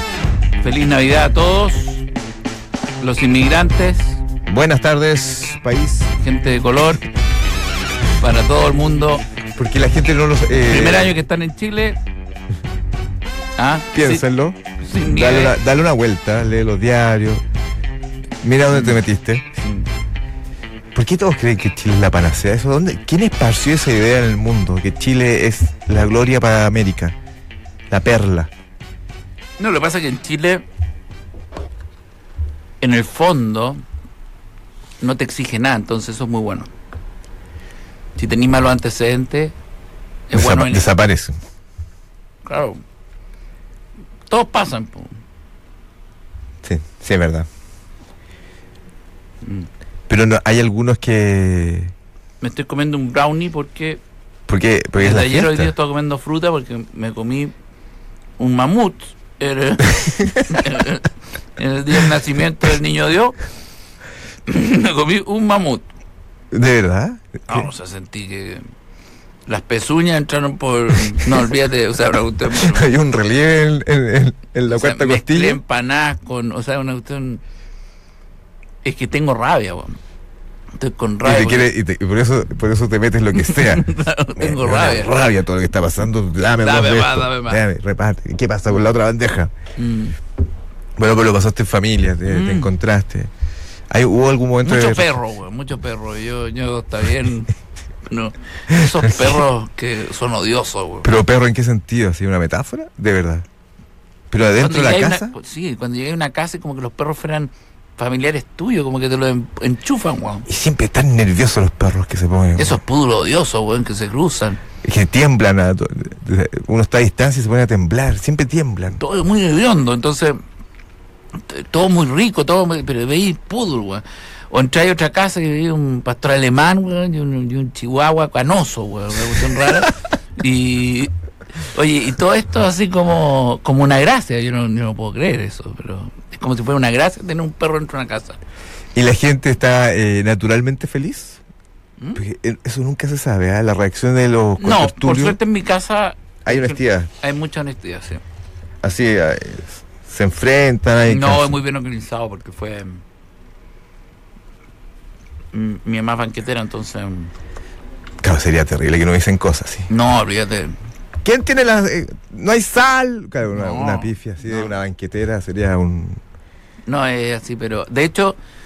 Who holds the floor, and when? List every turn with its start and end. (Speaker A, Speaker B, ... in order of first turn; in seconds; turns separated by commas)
Speaker A: 0.6-2.1, Speaker A: 3.0-4.2, Speaker B: 4.5-6.1, Speaker A: 6.2-7.1, Speaker A: 8.2-9.2, Speaker B: 9.6-11.2, Speaker A: 10.7-12.0, Speaker A: 13.6-14.2, Speaker B: 13.9-17.4, Speaker A: 14.8-15.6, Speaker B: 18.4-19.4, Speaker A: 18.7-19.0, Speaker A: 19.6-19.9, Speaker B: 20.9-27.2, Speaker B: 27.9-28.5, Speaker A: 29.6-30.6, Speaker A: 32.8-33.8, Speaker A: 35.0-36.7, Speaker A: 38.2-39.5, Speaker A: 40.3-40.9, Speaker B: 40.4-41.4, Speaker A: 42.5-42.8, Speaker A: 44.3-45.2, Speaker B: 46.6-47.5, Speaker A: 49.4-49.7, Speaker B: 50.1-51.9, Speaker A: 52.4-54.0, Speaker B: 54.5-55.7, Speaker A: 55.0-57.5, Speaker A: 58.4-63.4, Speaker B: 60.0-60.6, Speaker A: 64.5-65.8, Speaker B: 66.5-67.7, Speaker A: 67.5-68.6, Speaker A: 69.5-72.9, Speaker B: 72.5-75.6, Speaker A: 74.7-77.4, Speaker A: 78.8-80.0, Speaker A: 80.8-81.7, Speaker B: 81.2-89.5, Speaker A: 83.3-85.2, Speaker A: 86.6-87.6, Speaker A: 89.8-90.2, Speaker B: 91.0-93.3, Speaker A: 92.3-92.7, Speaker B: 93.9-95.2, Speaker A: 94.6-97.5, Speaker A: 98.1-101.1, Speaker B: 98.7-99.4, Speaker B: 101.0-103.5, Speaker B: 104.3-105.3, Speaker A: 104.6-110.5, Speaker B: 110.5-112.8, Speaker A: 112.6-114.6, Speaker B: 114.8-119.0, Speaker A: 119.0-120.4, Speaker A: 121.5-131.1, Speaker A: 131.7-138.4, Speaker B: 138.9-141.4, Speaker B: 142.2-145.4, Speaker A: 144.6-148.2, Speaker B: 146.4-147.1, Speaker B: 148.8-151.6, Speaker A: 151.1-153.0, Speaker A: 155.5-157.3, Speaker B: 158.2-159.9, Speaker A: 159.9-160.8, Speaker B: 161.2-166.2, Speaker A: 163.5-164.8, Speaker A: 166.9-168.4